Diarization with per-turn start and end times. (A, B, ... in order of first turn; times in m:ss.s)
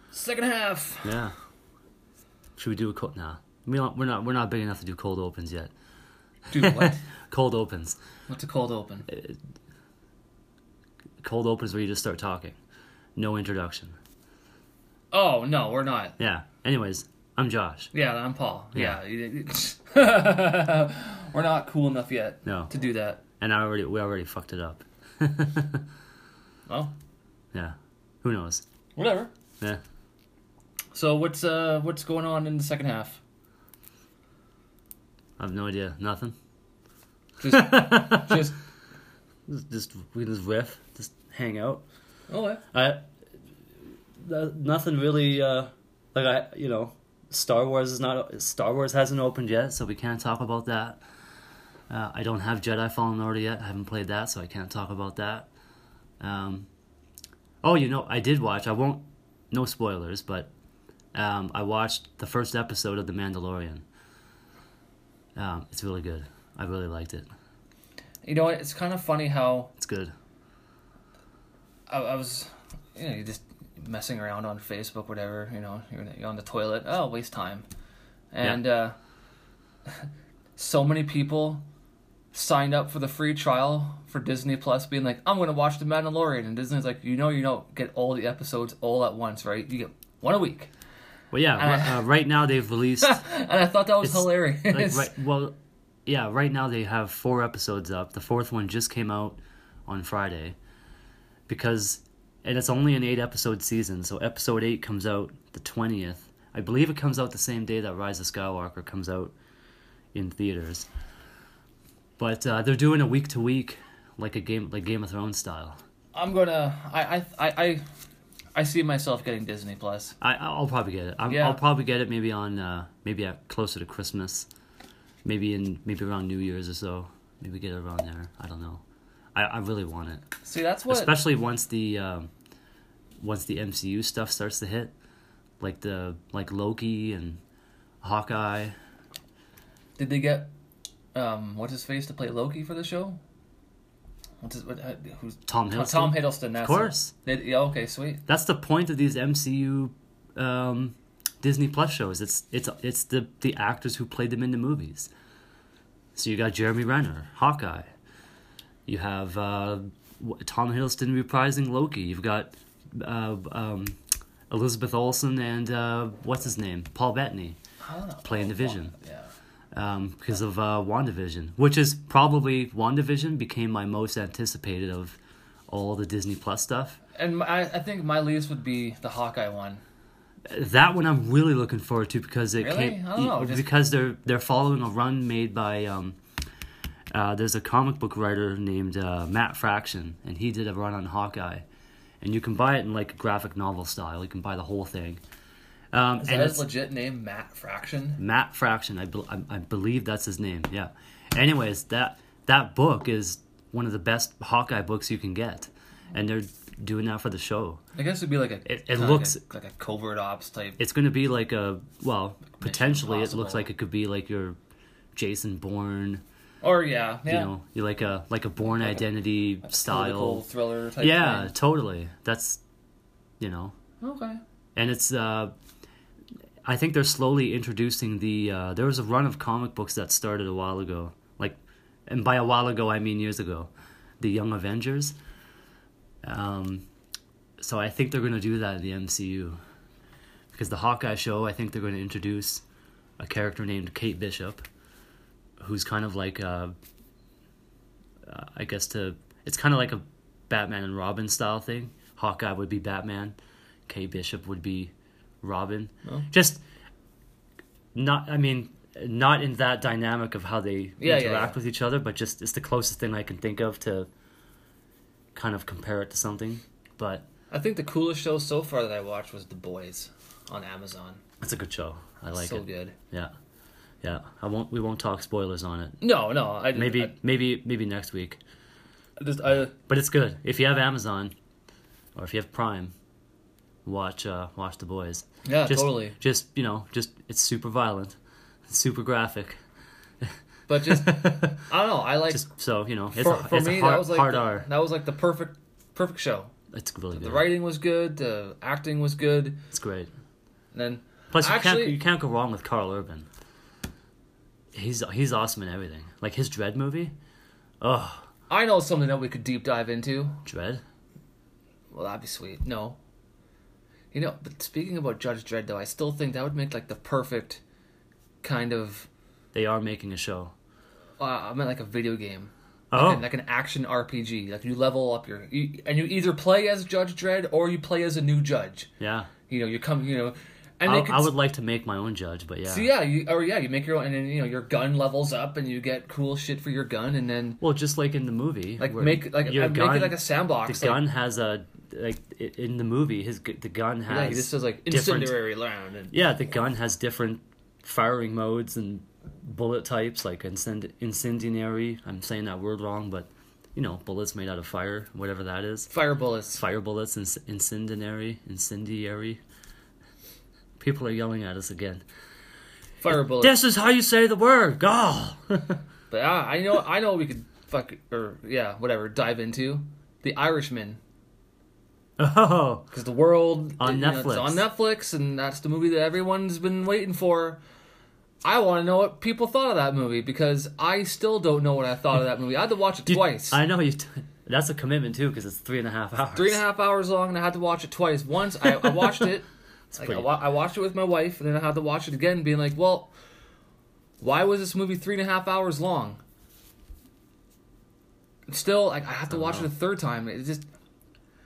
0:00.1-0:01.2 A
0:01.0-0:01.3 B
0:02.6-0:05.7 B
0:06.5-0:07.0 A
0:06.5-0:08.0 B
0:08.3-0:09.1 A
0:09.1-0:09.4 B
0:11.2-0:12.6 B
0:13.2-0:14.0 B
0:15.1-0:16.2 A
0:16.2-0:17.9 B
0:17.9-0:23.2 A
0:22.4-0:22.7 B
0:23.4-0:25.8 B
0:26.7-0:26.9 A
0:27.5-0:28.6 B
0:29.0-0:29.3 A
0:30.9-0:33.2 A
0:35.4-0:36.4 B
0:37.4-0:38.6 A
0:37.5-0:38.4 B
0:39.5-0:41.8 B
0:42.3-0:42.6 A
0:42.7-0:43.0 B
0:44.2-0:51.0 B
0:51.9-0:55.5 B
0:56.2-0:56.7 B
0:57.6-1:00.5 B
1:01.1-1:03.8 B
1:05.4-1:07.2 B
1:08.2-1:09.7 A
1:09.8-1:10.1 B
1:11.9-1:17.6 A
1:18.3-1:19.0 A
1:20.6-1:21.6 A
1:22.3-1:30.7 A
1:31.3-1:33.2 B
1:31.5-1:32.0 A
1:33.0-1:35.1 A
1:34.0-1:40.6 B
1:41.5-1:49.3 B
1:50.1-1:50.9 B
1:52.2-1:55.8 B
1:56.1-1:57.8 A
1:58.5-2:00.2 A
2:00.2-2:04.5 B
2:01.3-2:01.6 A
2:05.2-2:08.8 B
2:09.3-2:10.2 B
2:10.4-2:11.1 A
2:10.9-2:12.3 B
2:13.2-2:14.9 B
2:15.6-2:17.4 B
2:18.0-2:18.8 B
2:20.0-2:20.5 A
2:21.1-2:23.2 A
2:24.4-2:28.2 A
2:25.5-2:27.1 B
2:28.3-2:35.1 B
2:36.2-2:37.9 B
2:38.9-2:44.0 B
2:44.5-2:47.6 B
2:47.8-2:49.3 A
2:48.2-2:48.9 B
2:49.7-2:55.2 B
2:55.7-2:57.0 B
2:57.2-2:59.8 A
3:00.5-3:06.2 B
3:02.6-3:03.7 A
3:07.1-3:11.6 B
3:12.2-3:15.2 B
3:15.9-3:16.7 B
3:16.2-3:18.2 A
3:18.2-3:27.8 B
3:28.0-3:30.8 A
3:28.6-3:29.4 B
3:30.8-3:34.6 B
3:32.6-3:33.7 A
3:35.1-3:36.2 B
3:36.6-3:37.5 A
3:37.3-3:40.4 B
3:39.6-3:41.5 A
3:41.0-3:42.6 B
3:43.4-3:43.7 B
3:44.0-3:44.4 A
3:44.8-3:45.5 B
3:46.6-3:55.2 B
3:56.2-3:56.8 B
3:57.6-3:59.6 B
4:00.5-4:02.6 B
4:03.2-4:04.6 B
4:05.6-4:06.7 B
4:08.2-4:13.4 B
4:13.9-4:16.6 B
4:17.9-4:24.1 B
4:21.0-4:21.6 A
4:25.3-4:27.3 B
4:27.5-4:31.2 A
4:31.4-4:33.3 B
4:32.3-4:33.0 A
4:34.0-4:36.0 B
4:36.0-4:37.2 A
4:36.7-4:38.4 B
4:39.2-4:39.7 A
4:39.9-4:41.3 B
4:42.1-4:42.9 B
4:43.8-4:49.6 B
4:45.4-4:46.2 A
4:50.7-4:52.4 A
4:50.8-4:51.6 B
4:52.3-4:54.7 B
4:53.1-4:56.5 A
4:56.7-4:57.5 B
4:57.1-4:59.6 A
4:59.7-5:00.1 B
5:00.7-5:02.0 A
5:01.3-5:03.3 B
5:04.7-5:07.1 B
5:07.8-5:08.3 B
5:08.5-5:10.4 A
5:10.4-5:10.8 B
5:11.9-5:13.0 A
5:14.1-5:17.6 A
5:18.4-5:19.1 A
5:19.5-5:20.5 B
5:21.2-5:28.9 A
5:22.9-5:23.3 B
5:29.0-5:29.3 B
5:29.5-5:31.3 A
5:30.8-5:32.9 B
5:32.7-5:37.6 A
5:37.6-5:45.4 B
5:38.8-5:41.0 A
5:44.1-5:46.1 A
5:46.1-5:55.9 B
5:55.9-5:56.6 A
5:56.5-5:59.4 B
6:00.8-6:02.0 B
6:03.0-6:03.6 A
6:03.1-6:05.8 B
6:06.1-6:11.0 A
6:12.2-6:12.9 B
6:12.9-6:17.6 A
6:13.8-6:14.6 B
6:18.4-6:23.6 A
6:23.1-6:26.6 B
6:26.3-6:29.5 A
6:28.8-6:29.2 B
6:29.9-6:30.3 B
6:30.0-6:33.1 A
6:34.2-6:36.2 A
6:38.5-6:40.6 A
6:39.3-6:39.7 B